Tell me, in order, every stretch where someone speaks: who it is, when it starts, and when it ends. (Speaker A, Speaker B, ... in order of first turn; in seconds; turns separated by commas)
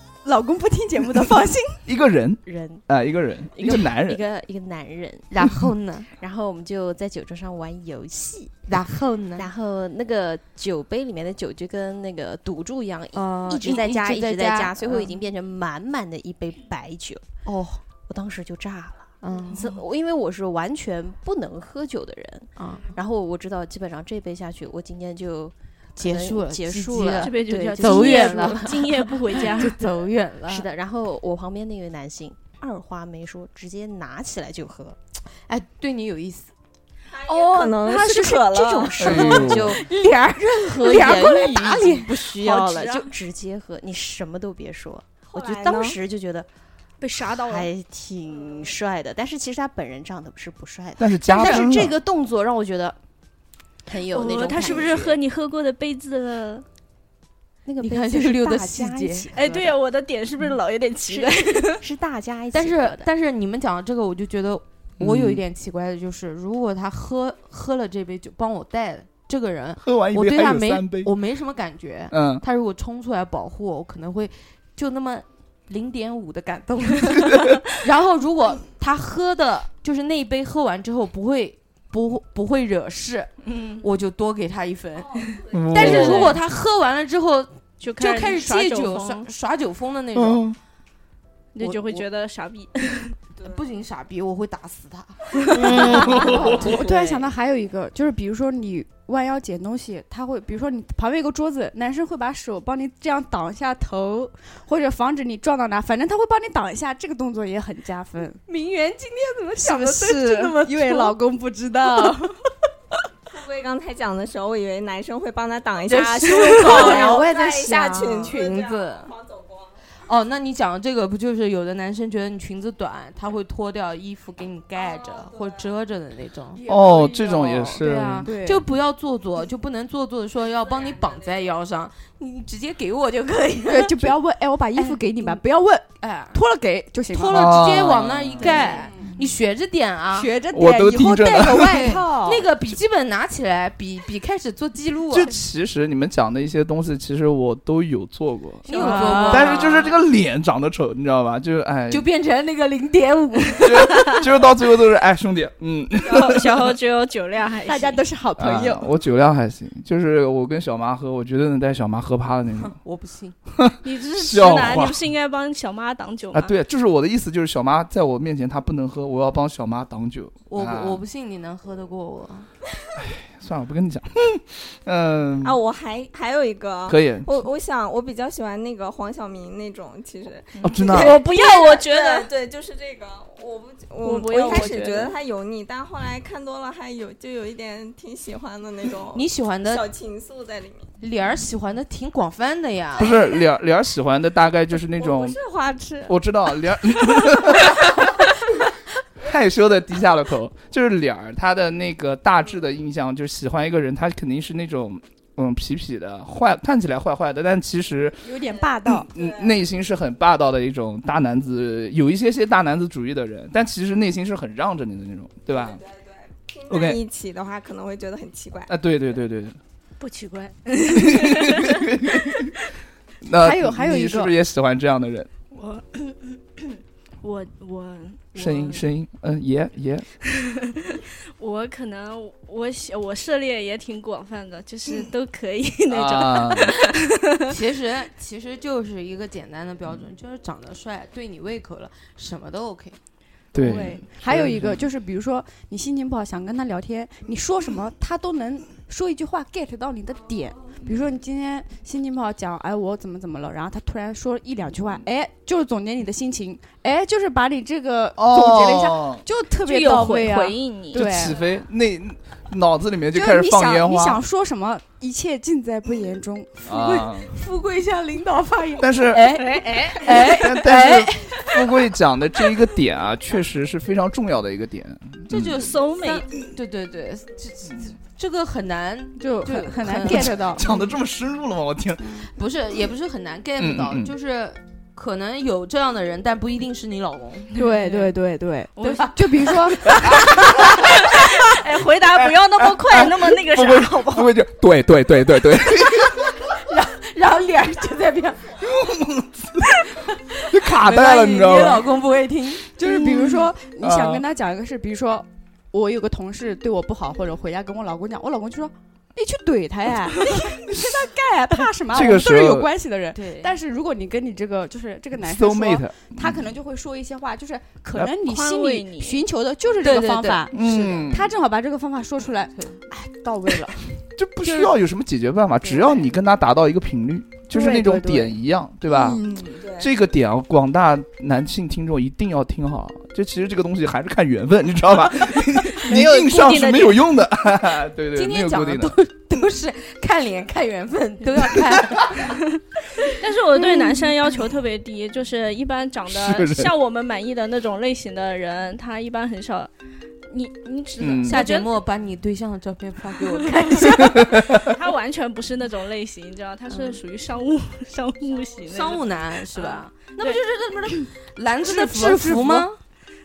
Speaker A: 0.2-1.8, Speaker B: 1.9-4.2, Speaker C: 2.5-2.8, Speaker C: 3.5-5.4, Speaker D: 5.3-6.1, Speaker C: 6.1-8.5, Speaker D: 8.7-9.5, Speaker C: 9.3-17.2, Speaker D: 13.1-15.2, Speaker D: 17.4-17.8, Speaker C: 18.1-29.5, Speaker D: 19.2-19.7, Speaker D: 22.6-22.9, Speaker D: 25.9-30.7, Speaker E: 27.2-29.8, Speaker C: 30.5-35.0, Speaker D: 35.5-36.5, Speaker F: 37.1-39.5, Speaker C: 37.6-39.9, Speaker B: 39.0-39.8, Speaker D: 39.6-42.2, Speaker C: 40.8-46.5, Speaker E: 42.4-43.1, Speaker F: 45.3-46.0, Speaker E: 47.0-47.7, Speaker C: 47.2-53.0, Speaker B: 51.0-52.0, Speaker C: 53.9-55.2, Speaker E: 54.1-56.6, Speaker C: 57.6-59.7, Speaker D: 57.8-59.4, Speaker E: 59.3-61.8, Speaker C: 61.8-63.1, Speaker D: 62.5-90.4, Speaker B: 65.0-65.4, Speaker B: 69.8-71.1, Speaker B: 72.1-72.4, Speaker B: 77.2-77.6, Speaker E: 83.4-83.8, Speaker B: 85.5-86.3, Speaker E: 85.7-86.3, Speaker E: 87.8-89.3, Speaker B: 90.1-90.6, Speaker E: 91.5-93.1, Speaker D: 91.6-92.0, Speaker D: 93.4-96.7, Speaker B: 95.5-96.8, Speaker A: 96.2-108.5, Speaker D: 108.5-111.1, Speaker A: 109.5-112.5, Speaker F: 113.3-119.7, Speaker D: 115.8-119.1, Speaker E: 116.3-117.0, Speaker A: 116.5-117.1, Speaker C: 117.9-118.2, Speaker D: 120.1-126.7, Speaker B: 126.6-128.3, Speaker D: 127.3-134.0, Speaker A: 128.2-128.7, Speaker A: 133.6-137.4, Speaker D: 134.8-135.4, Speaker D: 136.0-136.4, Speaker D: 137.1-140.3, Speaker B: 137.3-138.6, Speaker A: 138.4-139.1, Speaker A: 140.1-142.5, Speaker B: 140.5-142.0, Speaker D: 141.5-145.3, Speaker B: 145.1-152.0, Speaker D: 148.7-149.9, Speaker A: 148.7-149.6, Speaker E: 148.7-149.7, Speaker D: 151.9-154.2, Speaker B: 153.6-156.8, Speaker E: 156.0-158.0, Speaker A: 157.6-158.9, Speaker B: 158.4-162.7, Speaker D: 162.7-163.3, Speaker B: 163.6-165.0, Speaker E: 163.8-166.5, Speaker B: 166.3-171.0, Speaker D: 170.5-172.5, Speaker B: 172.9-175.6, Speaker F: 175.4-190.9, Speaker B: 176.9-177.4, Speaker B: 180.6-181.2, Speaker E: 180.6-182.3, Speaker E: 184.0-185.1, Speaker D: 189.1-189.8, Speaker D: 191.0-193.2, Speaker B: 192.9-195.4, Speaker F: 194.9-196.1, Speaker B: 196.1-198.3, Speaker B: 199.2-208.3, Speaker A: 208.2-209.1, Speaker B: 208.8-215.8, Speaker F: 209.1-209.6, Speaker F: 215.6-218.7, Speaker B: 216.7-217.0, Speaker B: 218.7-219.6, Speaker E: 220.0-222.4, Speaker B: 220.9-222.5, Speaker B: 223.2-225.3, Speaker A: 223.3-224.3, Speaker E: 225.5-226.7, Speaker E: 227.2-228.8, Speaker B: 228.3-230.1, Speaker E: 230.3-237.5, Speaker B: 235.9-236.8, Speaker D: 237.4-243.0, Speaker B: 243.5-244.8, Speaker A: 243.6-261.4, Speaker E: 243.7-244.0, Speaker B: 258.2-259.2, Speaker E: 259.6-261.1, Speaker B: 260.9-264.2, Speaker A: 263.1-266.8, Speaker B: 266.6-267.3, Speaker D: 266.7-271.2, Speaker B: 268.8-269.4, Speaker E: 269.4-270.4, Speaker B: 270.1-275.6, Speaker D: 275.3-280.8, Speaker E: 275.5-276.2, Speaker A: 279.2-280.7, Speaker B: 280.1-282.2, Speaker D: 282.4-287.6, Speaker B: 283.6-284.1, Speaker A: 287.5-290.2, Speaker E: 287.6-288.1, Speaker E: 288.8-289.6, Speaker D: 288.8-289.1, Speaker B: 290.0-290.6, Speaker E: 290.5-294.3, Speaker B: 292.1-296.4, Speaker D: 296.4-298.7, Speaker B: 298.6-299.7, Speaker D: 300.4-302.7, Speaker B: 300.4-301.9, Speaker A: 302.8-324.7, Speaker B: 302.9-304.2, Speaker B: 310.7-311.0, Speaker B: 311.9-312.7, Speaker D: 313.1-313.5, Speaker B: 315.2-316.5, Speaker E: 318.2-319.2, Speaker D: 319.8-321.1, Speaker B: 320.5-321.3, Speaker D: 322.5-322.8, Speaker B: 324.2-338.9, Speaker A: 327.5-328.3, Speaker A: 329.0-329.6, Speaker F: 329.6-329.9, Speaker E: 335.5-337.1, Speaker D: 338.1-342.3, Speaker E: 342.3-349.7, Speaker D: 343.6-344.0, Speaker B: 346.1-346.7, Speaker E: 350.3-351.7, Speaker B: 351.0-351.4, Speaker D: 351.2-354.4, Speaker B: 354.1-354.7, Speaker E: 354.1-360.4, Speaker D: 358.7-362.8, Speaker A: 361.6-362.7